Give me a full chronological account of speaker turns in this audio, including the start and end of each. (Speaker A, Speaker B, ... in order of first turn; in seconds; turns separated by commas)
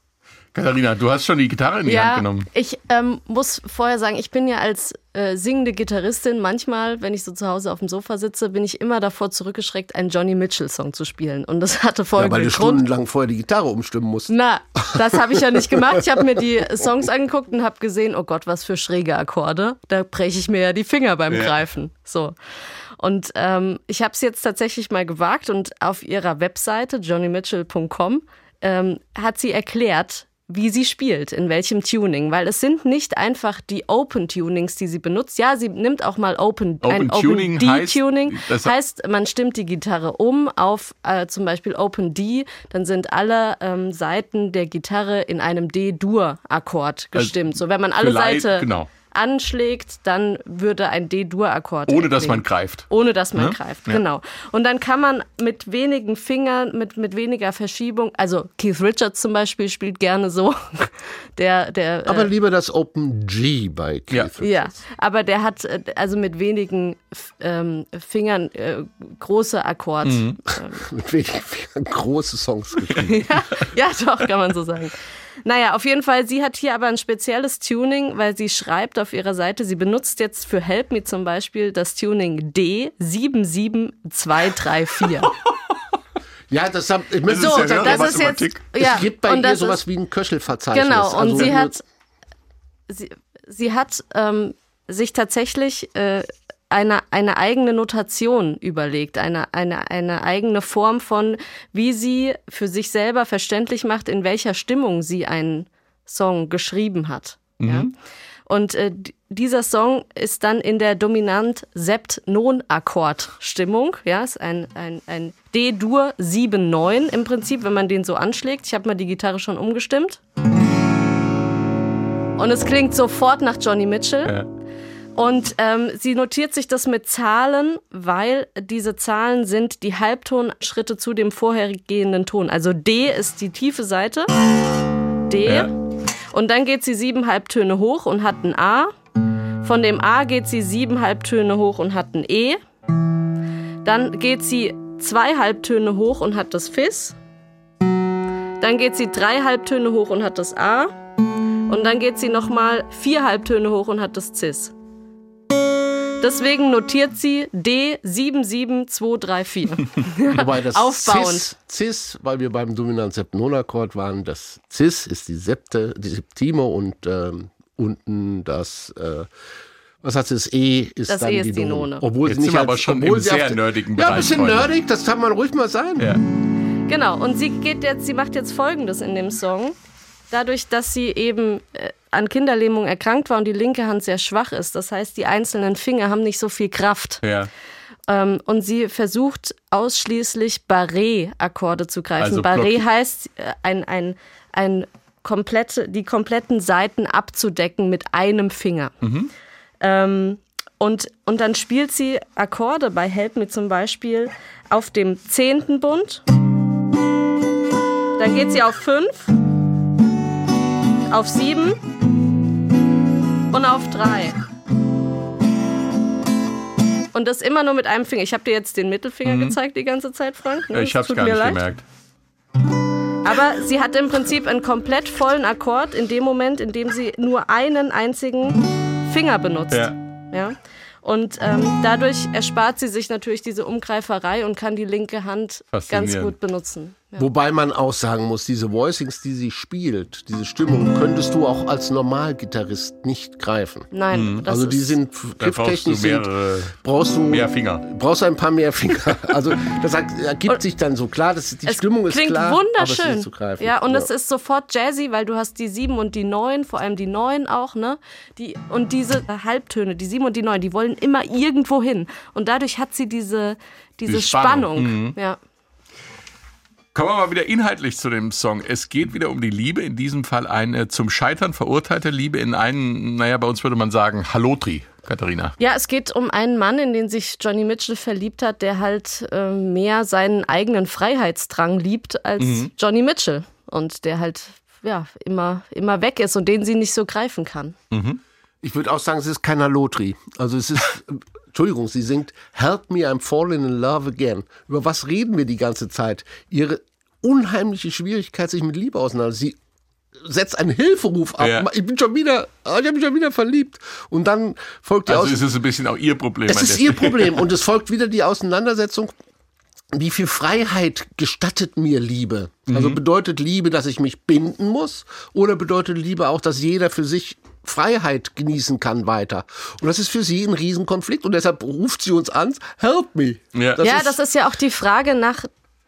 Speaker A: 0.5-2.5, Speaker B: 1.9-12.8, Speaker C: 12.2-16.0, Speaker B: 14.3-22.3, Speaker B: 23.0-62.3, Speaker A: 36.8-38.7, Speaker A: 47.1-48.9, Speaker A: 51.9-54.0, Speaker C: 62.1-64.7, Speaker B: 64.4-70.8, Speaker A: 70.0-70.4, Speaker C: 70.8-73.1, Speaker B: 73.0-74.9, Speaker B: 75.5-85.3, Speaker C: 86.5-91.8, Speaker A: 87.3-88.9, Speaker B: 87.3-89.8, Speaker B: 90.7-91.8, Speaker B: 92.9-107.9, Speaker A: 107.6-107.9, Speaker B: 108.5-120.2, Speaker B: 122.4-124.3, Speaker B: 125.2-134.3, Speaker B: 135.3-135.7, Speaker A: 135.4-135.7, Speaker B: 136.3-138.9, Speaker B: 139.6-142.6, Speaker B: 143.8-147.2, Speaker B: 148.6-150.9, Speaker B: 151.7-154.7, Speaker B: 156.2-161.5, Speaker C: 160.3-169.3, Speaker C: 170.0-176.1, Speaker B: 171.1-172.1, Speaker A: 172.2-174.7, Speaker B: 176.9-179.8, Speaker B: 180.3-187.2, Speaker A: 187.2-187.5, Speaker B: 188.1-198.9, Speaker A: 192.2-192.8, Speaker A: 199.0-199.3, Speaker B: 199.8-206.2, Speaker B: 208.2-209.3, Speaker B: 211.1-211.8, Speaker B: 213.5-214.4, Speaker B: 217.1-221.6, Speaker A: 219.2-219.6, Speaker A: 220.7-221.8, Speaker B: 223.2-237.3, Speaker A: 235.7-236.3, Speaker C: 237.2-243.9, Speaker B: 243.9-245.0, Speaker A: 244.1-244.4, Speaker C: 244.4-246.3, Speaker A: 245.4-246.8, Speaker C: 246.8-254.1, Speaker A: 247.3-247.8, Speaker B: 251.7-265.4, Speaker A: 264.1-265.1, Speaker A: 266.9-275.6, Speaker B: 275.6-287.8, Speaker A: 282.4-282.7, Speaker A: 287.9-288.2, Speaker C: 288.6-299.6, Speaker C: 300.2-305.4, Speaker A: 301.4-301.7, Speaker A: 305.1-307.4, Speaker C: 306.5-309.1, Speaker C: 309.9-324.2, Speaker A: 312.7-313.0, Speaker A: 323.5-323.8, Speaker B: 323.8-325.5